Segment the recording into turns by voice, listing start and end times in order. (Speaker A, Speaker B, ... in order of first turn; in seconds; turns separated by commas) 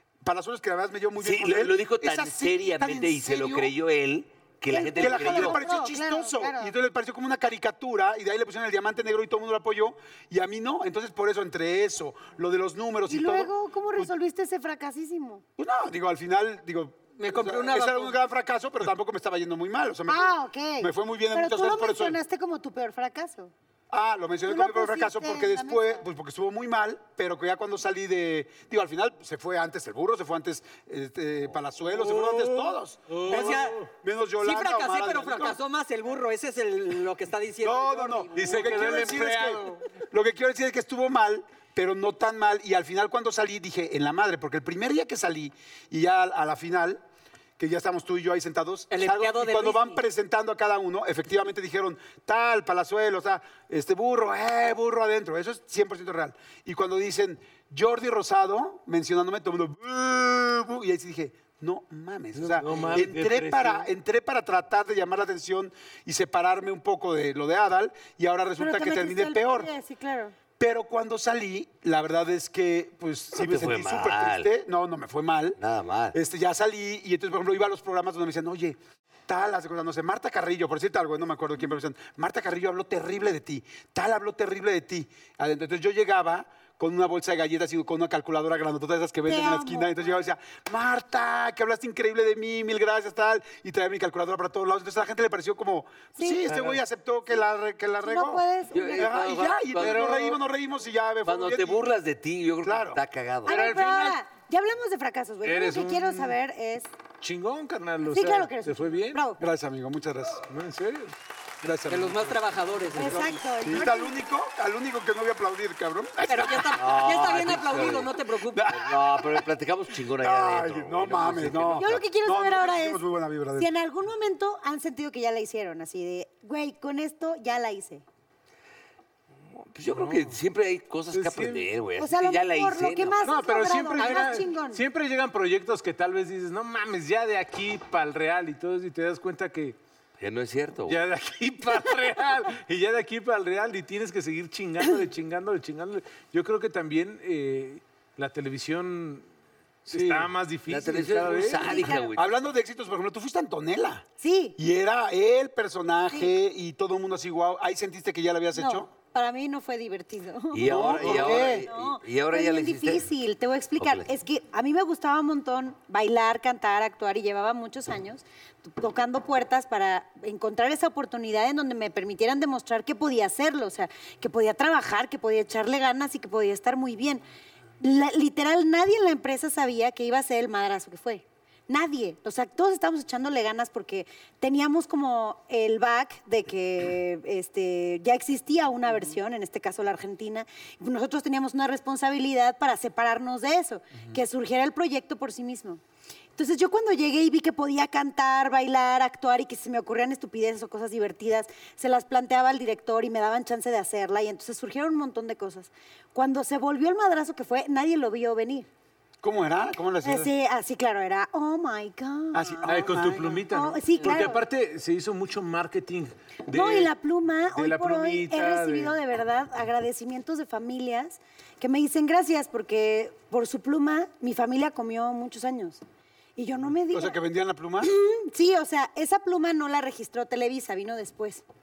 Speaker A: 0.2-3.7, Speaker B: 1.2-5.6, Speaker C: 4.7-6.7, Speaker A: 4.9-14.1, Speaker C: 13.1-15.4, Speaker A: 15.6-22.2, Speaker D: 17.2-18.1, Speaker C: 20.1-23.5, Speaker A: 23.9-35.6, Speaker C: 24.5-26.0, Speaker E: 31.9-33.9, Speaker D: 33.2-33.8, Speaker D: 34.4-38.7, Speaker A: 37.6-47.0, Speaker E: 38.3-39.8, Speaker A: 47.6-69.7, Speaker D: 48.9-50.0, Speaker E: 62.3-63.9, Speaker C: 68.6-70.3, Speaker A: 70.6-75.6, Speaker B: 73.3-74.5, Speaker B: 75.6-76.2, Speaker A: 76.1-101.9, Speaker C: 89.3-89.9, Speaker C: 96.2-96.4, Speaker E: 96.5-96.8, Speaker C: 98.0-99.1, Speaker B: 98.7-100.1, Speaker E: 99.8-100.4, Speaker B: 101.2-103.6, Speaker A: 102.6-103.0, Speaker C: 103.5-106.9, Speaker E: 103.5-104.2, Speaker E: 105.4-106.3, Speaker E: 107.2-109.2, Speaker C: 108.1-109.4, Speaker A: 109.4-110.5, Speaker E: 110.5-111.1, Speaker A: 111.6-112.4, Speaker D: 111.9-113.4, Speaker C: 113.0-114.2, Speaker A: 113.0-116.8, Speaker D: 116.2-118.7, Speaker B: 116.7-122.0, Speaker A: 118.7-119.4, Speaker A: 120.2-123.7, Speaker C: 121.8-123.0, Speaker C: 123.6-128.0, Speaker B: 129.5-133.2, Speaker E: 129.9-130.3, Speaker E: 131.1-131.7, Speaker C: 132.0-134.8, Speaker E: 133.2-139.8, Speaker B: 140.2-141.0, Speaker E: 140.9-149.2, Speaker E: 149.9-151.8, Speaker A: 149.9-150.3, Speaker B: 150.7-152.3, Speaker C: 151.6-152.1, Speaker A: 152.1-154.1, Speaker C: 154.2-154.6, Speaker A: 154.6-158.9, Speaker C: 158.5-177.2, Speaker B: 160.5-163.1, Speaker A: 160.6-161.7, Speaker B: 163.8-164.1, Speaker C: 177.8-195.8, Speaker C: 196.3-208.7, Speaker A: 209.2-210.3, Speaker C: 210.0-212.6, Speaker A: 212.3-213.4, Speaker E: 212.6-216.9, Speaker C: 213.5-214.4, Speaker C: 216.5-225.8, Speaker E: 217.6-218.9, Speaker C: 226.3-227.2, Speaker A: 226.9-227.9, Speaker C: 227.8-231.4